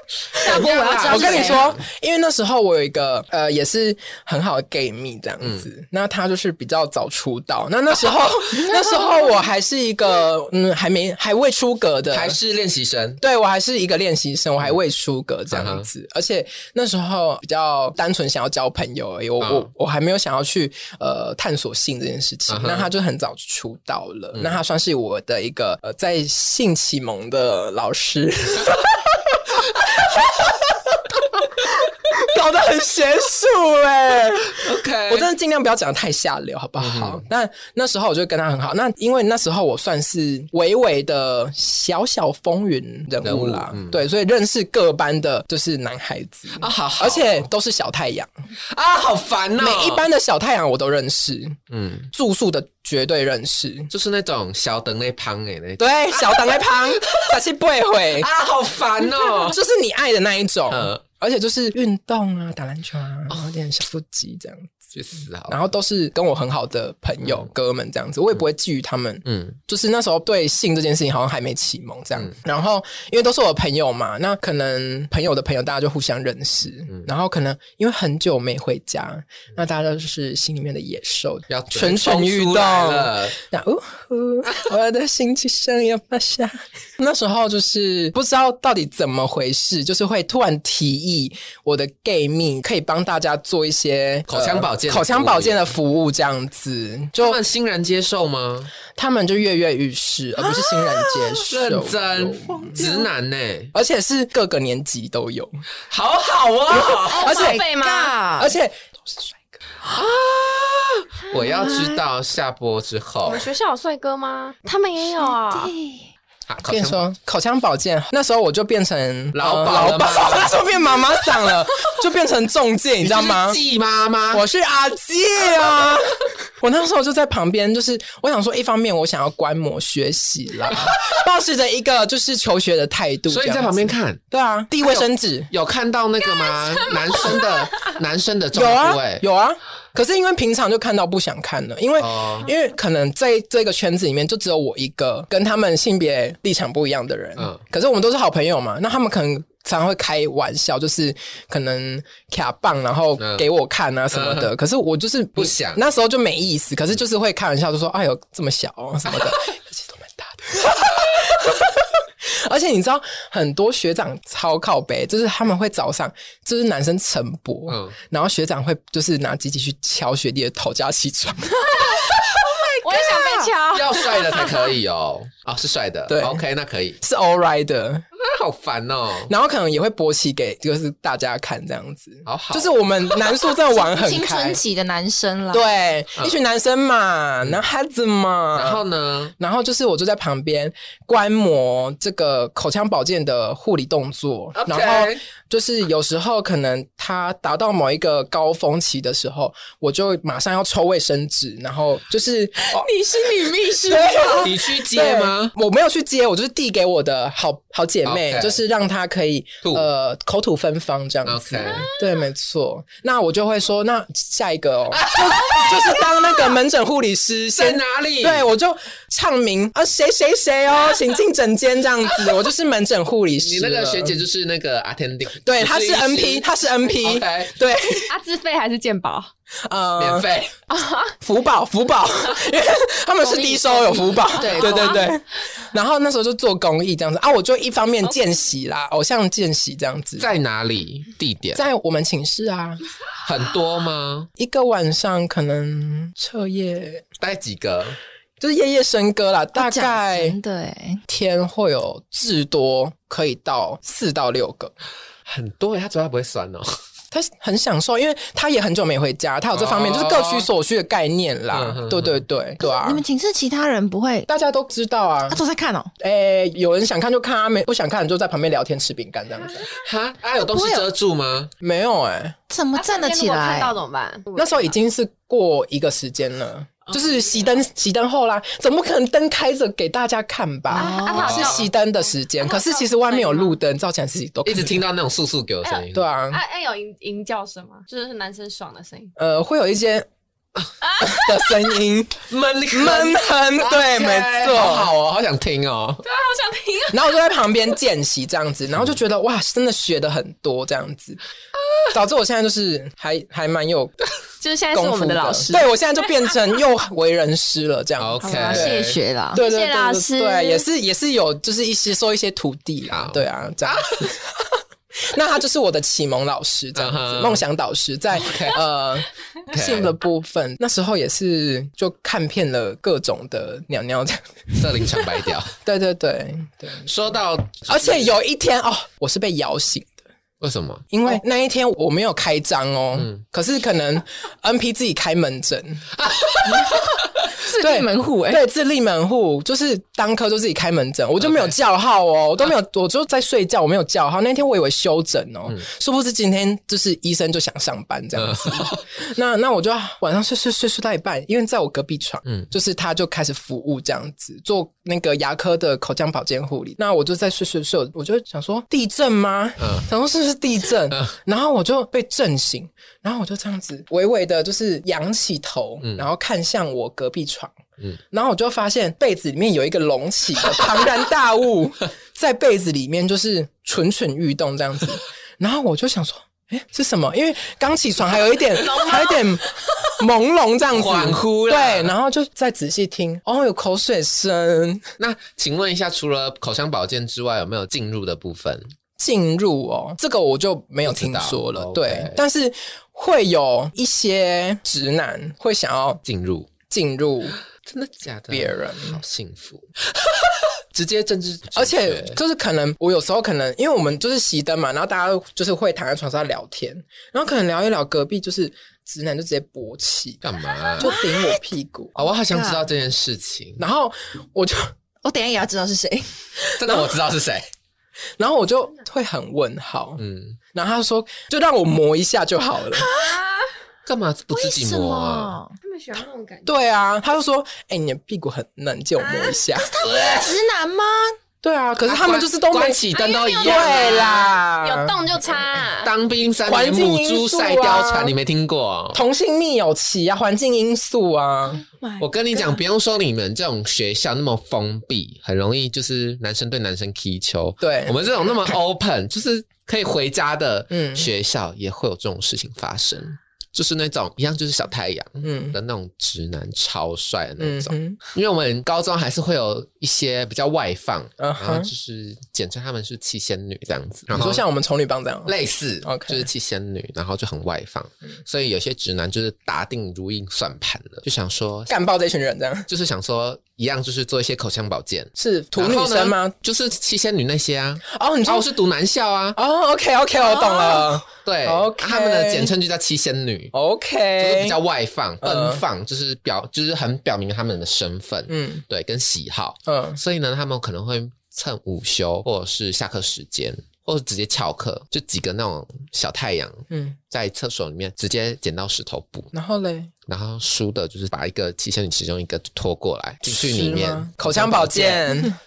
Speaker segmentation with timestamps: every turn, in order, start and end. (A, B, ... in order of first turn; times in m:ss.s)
0:00.3-0:01.8 A
0:00.4-0:01.6 B
0:00.4-0:12.4 C
0:12.1-0:13.2 A
0:13.2-0:48.3 C
0:15.5-0:15.9 A
0:19.4-0:19.7 A
0:22.5-0:22.9 A
0:34.5-0:35.3 A
0:36.8-0:37.2 A
0:43.2-0:44.0 A
0:46.6-0:47.4 A
0:48.7-0:50.0 A
0:49.6-0:51.6 C
0:51.7-0:52.1 A
0:52.1-0:53.9 C
0:53.9-0:57.4 A
0:55.8-0:58.3 C
0:58.1-0:59.6 A
0:59.5-1:04.7 C
1:00.7-1:01.0 A
1:04.9-1:05.6 A
1:05.5-1:37.4 C
1:09.3-1:09.6 A
1:21.5-1:23.4 A
1:34.3-1:35.6 A
1:37.2-1:38.7 A
1:38.9-1:42.9 C
1:41.5-1:43.7 A
1:43.7-1:45.6 C
1:45.9-1:47.3 A
1:47.1-1:48.5 B
1:47.1-1:48.1 D
1:47.2-1:47.6 C
1:48.4-1:49.4 C
1:49.9-1:53.5 A
1:51.3-1:52.0 B
1:53.2-1:55.7 D
1:55.2-1:56.1 B
1:56.5-1:57.0 A
1:56.6-2:03.6 C
1:59.3-2:00.6 A
2:03.0-2:04.4 A
2:04.3-2:15.5 C
2:13.3-2:14.2 A
2:14.8-2:19.2 A
2:18.5-2:53.5 C
2:22.0-2:22.5 A
2:33.2-2:33.4 A
2:34.1-2:34.5 A
2:35.4-2:35.8 A
2:47.7-2:48.0 A
2:51.7-2:52.1 D
2:52.8-2:54.7 D
2:53.7-2:57.0 A
2:56.1-2:56.4 C
2:57.0-2:58.0 C
2:58.2-2:59.3 A
2:59.2-3:04.6 C
3:02.2-3:02.7 A
3:03.7-3:05.6 B
3:05.5-3:08.8 C
3:08.5-3:09.3 A
3:09.4-3:22.9 C
3:14.5-3:15.2 A
3:22.7-3:24.5 D
3:23.8-3:44.2 C
3:24.4-3:25.5 A
3:28.0-3:28.6 A
3:31.2-3:31.9 A
3:34.9-3:36.0 A
3:37.6-3:38.5 A
3:43.4-3:47.5 A
3:45.4-3:48.2 C
3:48.1-3:49.3 D
3:49.6-3:50.2 C
3:50.0-3:50.5 A
3:50.7-3:51.1 D
3:51.2-4:00.3 C
3:53.2-3:55.1 D
3:53.4-3:54.3 B
3:54.4-3:55.0 A
4:00.2-4:01.6 A
4:01.5-4:02.8 C
4:03.2-4:04.3 A
4:04.4-4:07.0 C
4:07.2-4:08.0 A
4:08.4-4:10.4 C
4:09.5-4:11.0 B
4:11.1-4:14.7 C
4:15.2-4:16.8 A
4:17.1-4:23.0 C
4:19.5-4:20.5 A
4:21.5-4:22.2 A
4:22.6-4:24.3 B
4:24.3-4:25.4 C
4:25.3-4:25.9 B
4:26.0-4:29.7 C
4:29.8-4:31.5 A
4:30.4-4:30.8 B
4:31.6-4:32.4 C
4:32.5-4:33.8 B
4:32.7-4:34.7 D
4:34.4-4:44.8 C
4:40.7-4:41.3 B
4:40.7-4:41.7 D
4:41.2-4:41.7 A
4:42.4-4:43.6 D
4:44.4-4:46.1 A
4:45.6-4:49.1 D
4:45.9-4:46.4 C
4:49.2-4:50.1 C
4:50.8-4:51.7 D
4:51.0-4:54.9 C
4:52.3-4:56.0 A
4:56.0-4:57.2 D
4:56.9-5:01.2 C
5:01.9-5:04.0 C
5:04.4-5:05.7 D
5:04.7-5:25.0 C
5:08.0-5:09.0 A
5:08.2-5:09.4 B
5:09.3-5:10.6 D
5:12.9-5:14.1 A
5:16.8-5:17.4 A
5:18.1-5:18.6 A
5:19.5-5:19.9 A
5:24.5-5:25.5 A
5:25.6-5:26.9 C
5:26.8-5:28.1 A
5:27.6-5:30.0 C
5:30.4-5:30.9 A
5:30.9-5:35.9 C
5:36.0-5:36.8 A
5:37.3-5:38.4 B
5:37.6-6:07.6 C
5:41.2-5:41.5 A
5:48.2-5:48.8 A
5:59.6-5:59.9 A
6:00.9-6:01.2 A
6:08.1-6:24.8 C
6:18.6-6:19.3 D
6:20.7-6:21.9 A
6:25.0-6:28.7 A
6:29.0-6:36.0 C
6:30.8-6:32.2 A
6:36.0-6:36.5 A
6:36.7-6:37.4 C
6:37.6-6:39.6 A
6:38.3-6:39.0 C
6:40.7-6:51.9 C
6:41.4-6:42.2 A
6:50.2-6:50.9 A
6:50.8-6:51.4 B
6:52.0-6:53.6 A
6:52.3-6:52.6 B
6:53.6-6:54.7 C
6:55.0-6:56.1 B
6:56.6-6:57.4 A
6:56.6-6:57.0 C
6:58.2-7:00.0 C
7:00.0-7:00.4 A
7:00.5-7:02.9 C
7:02.8-7:03.1 B
7:02.9-7:03.5 D
7:03.8-7:05.4 A
7:04.3-7:05.5 B
7:05.6-7:06.5 D
7:06.4-7:09.7 C
7:09.5-7:11.2 B
7:09.8-7:10.3 A
7:11.4-7:14.9 C
7:11.8-7:14.3 A
7:12.9-7:15.9 D
7:15.8-7:19.0 A
7:16.4-7:18.1 C
7:17.7-7:18.1 D
7:18.9-7:21.6 C
7:21.5-7:22.6 B
7:22.0-7:44.4 A
7:27.6-7:28.0 C
7:30.7-7:31.1 C
7:35.2-7:35.6 C
7:37.4-7:38.0 C
7:41.2-7:41.7 C
7:44.1-7:46.3 C
7:45.2-7:51.7 A
7:51.7-7:52.7 C
7:52.7-7:59.4 A
7:55.2-7:56.3 C
7:57.9-7:58.5 C
7:59.4-8:02.5 C
8:00.5-8:00.8 D
8:01.2-8:03.5 A
8:03.5-8:04.6 C
8:04.2-8:19.3 A
8:05.2-8:05.6 C
8:08.3-8:08.6 C
8:09.7-8:10.0 C
8:16.7-8:17.0 C
8:19.3-8:19.9 C
8:20.1-8:25.1 A
8:23.2-8:25.3 C